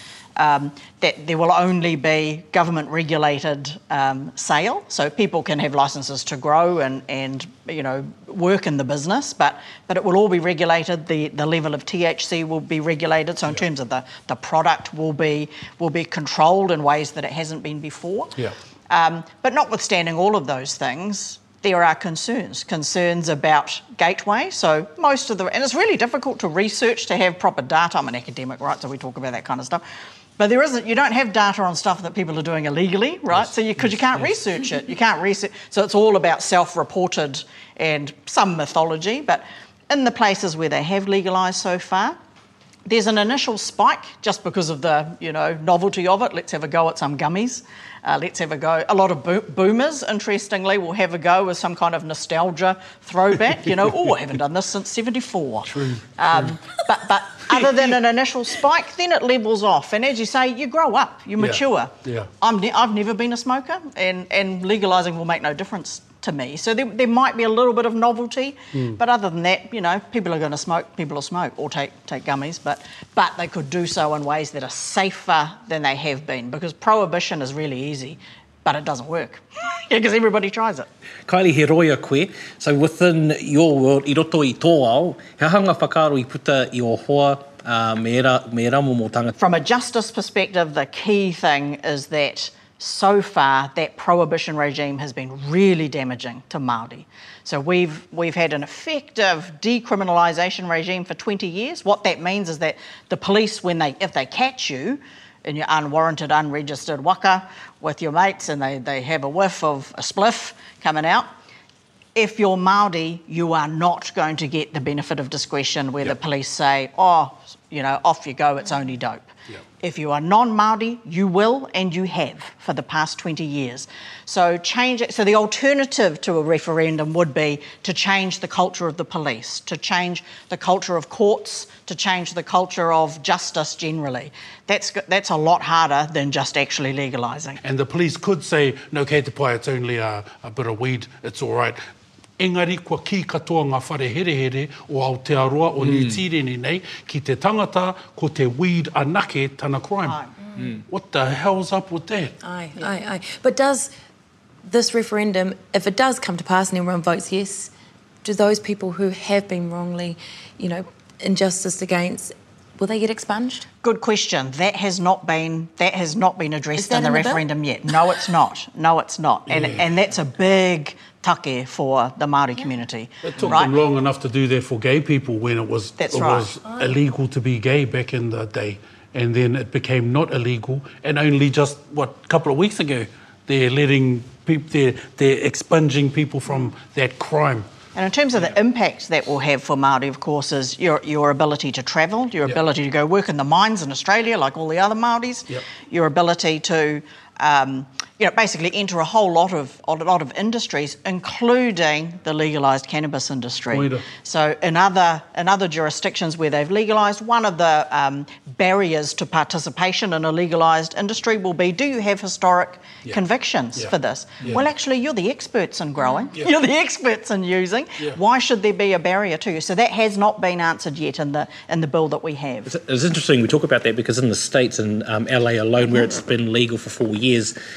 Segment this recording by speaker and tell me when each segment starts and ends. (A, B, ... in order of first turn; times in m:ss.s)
0:00.4-0:18.4 A
0:18.9-0:29.8 A
0:30.4-0:42.2 A
0:42.9-1:20.9 A
0:55.7-0:56.6 B
1:01.4-1:02.3 B
1:08.7-1:09.0 B
1:21.3-1:29.4 C
1:29.4-1:51.3 A
1:52.2-2:17.6 A
2:17.6-2:21.8 B
2:22.4-2:30.2 B
2:30.0-2:30.3 A
2:30.9-2:32.3 B
2:32.4-2:33.9 D
2:34.6-2:37.7 D
2:38.2-2:43.7 D
2:43.8-2:53.7 A
2:46.8-2:48.1 D
2:49.5-2:49.8 B
2:53.2-3:07.7 B
2:56.0-2:56.5 A
3:07.9-3:42.7 A
3:23.7-3:24.0 B
3:33.8-3:34.6 B
3:36.0-3:36.3 D
3:42.7-3:47.6 C